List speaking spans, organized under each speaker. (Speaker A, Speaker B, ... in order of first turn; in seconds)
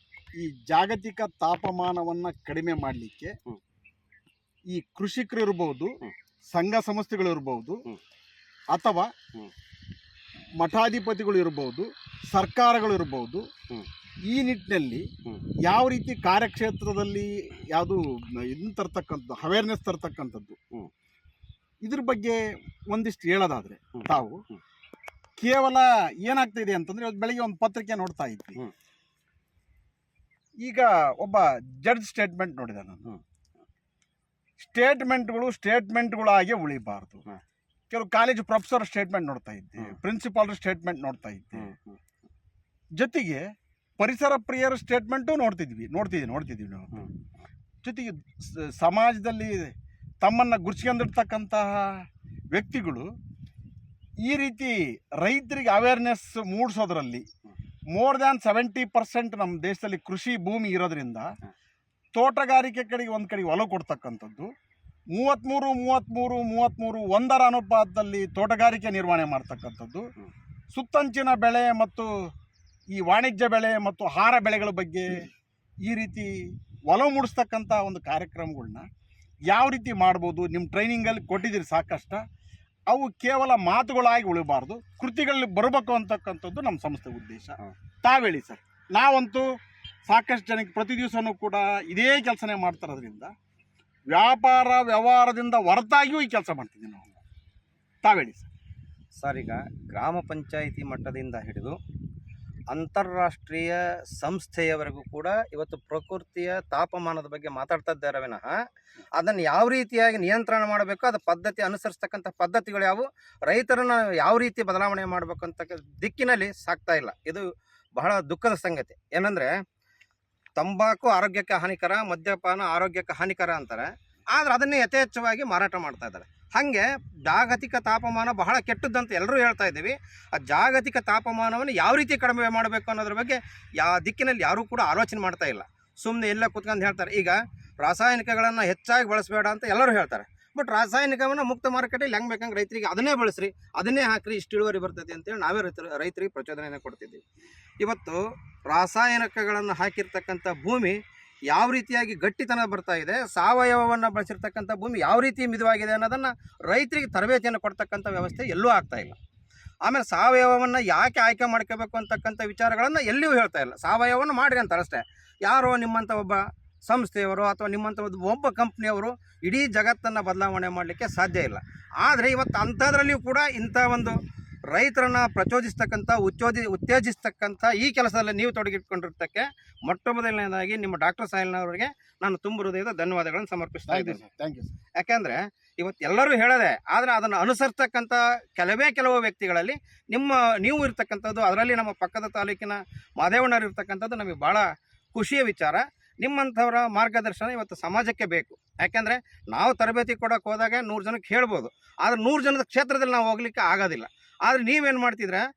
Speaker A: 0.3-3.3, 4.7-5.9, 6.5-7.8, 8.7-9.1, 10.6-13.4, 14.3-15.1, 15.6-20.6, 21.8-24.4, 25.4-28.6, 30.6-33.1, 34.6-37.2, 37.9-41.7, 43.0-43.4, 44.0-46.9, 47.8-51.9, 52.5-53.1, 54.2-57.2, 57.9-61.3, 62.1-64.5, 65.1-70.1, 70.7-72.1, 72.9-75.3, 75.8-78.9, 79.5-82.2, 82.9-89.5, 90.1-93.3, 94.1-97.1, 98.0-98.5, 183.9-184.7
Speaker B: 24.0-24.6, 41.5-42.0, 99.2-101.8, 102.7-108.5, 109.2-117.4, 118.0-119.5, 120.6-147.2, 147.8-151.0, 151.5-159.2, 159.8-174.2, 174.7-184.2, 185.0-205.4